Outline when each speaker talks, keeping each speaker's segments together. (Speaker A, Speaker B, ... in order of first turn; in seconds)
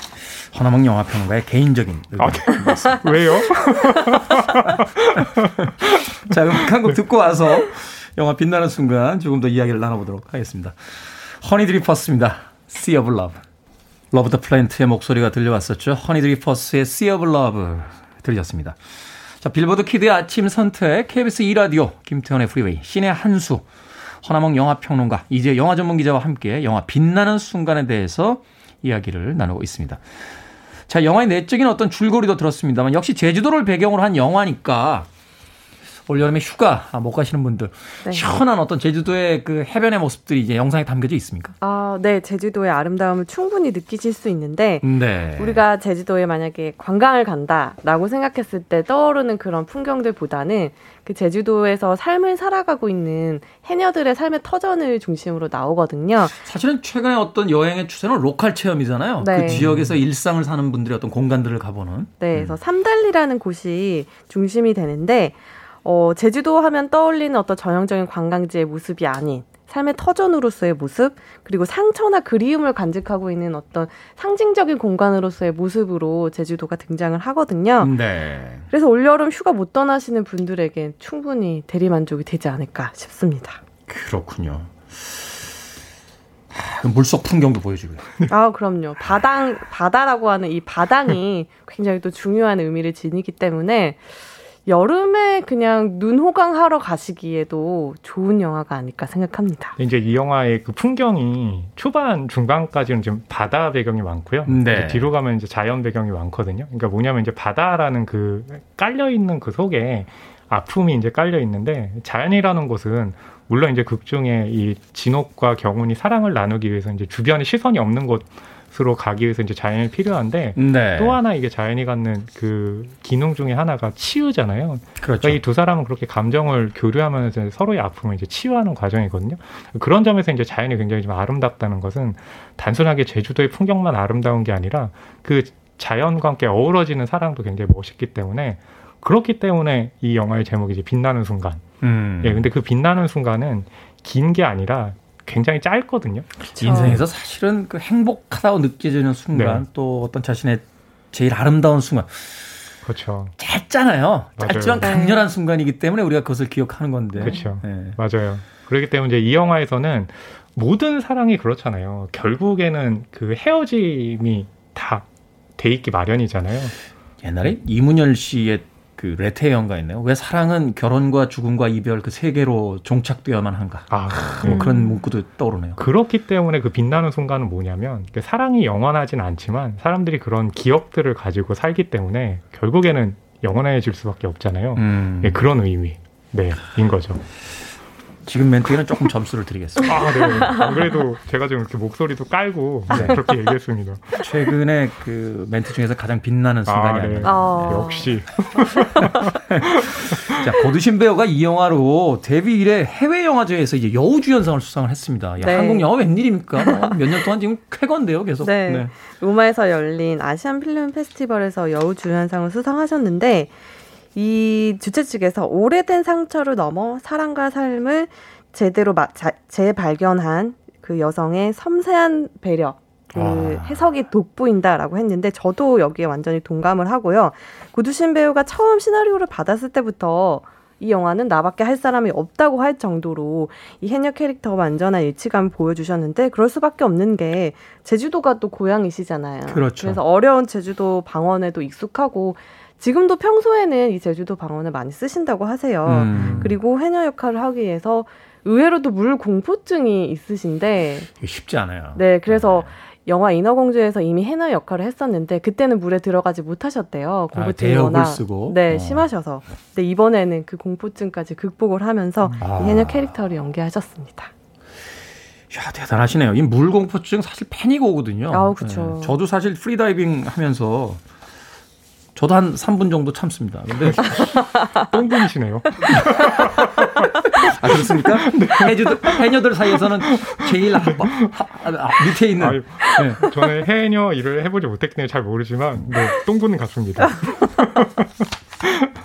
Speaker A: 0.2-4.8, 5.8-13.4, 14.1-18.8, 19.4-23.7, 24.2-30.0, 30.9-35.1, 36.1-41.5, 44.8-45.6, 56.4-62.6, 77.8-78.7, 83.9-85.5, 86.5-88.3, 104.5-105.1, 120.5-121.2, 125.0-125.4, 141.8-142.5, 146.6-152.5, 153.4-158.0, 167.2-175.8, 184.8-185.4, 188.3-190.6, 192.9-193.2, 194.2-208.9, 223.1-223.9, 239.5-240.0, 245.8-246.6, 251.2-252.7, 257.3-259.1, 262.4-263.2, 265.5-271.0, 272.1-274.3, 275.9-283.2
Speaker B: 2.2-7.0, 59.6-59.9, 99.8-141.7, 142.2-147.0, 149.3-149.7, 152.8-153.3, 154.4-155.0, 157.2-165.1, 165.6-166.7, 173.9-174.7, 175.8-187.2, 189.8-194.2, 196.7-199.3, 246.1-246.6, 273.9-279.3, 280.0-281.3, 282.3-288.1
Speaker C: 41.6-44.9, 45.4-56.4, 59.2-59.8, 62.2-78.0, 78.7-83.6, 88.3-94.1, 94.7-99.8, 146.4-147.0, 154.8-155.2, 157.2-157.5, 174.5-175.0, 197.2-198.2, 205.4-205.9, 206.6-207.0, 208.4-213.6, 214.2-251.1, 251.9-264.3, 268.3-269.2, 274.4-274.8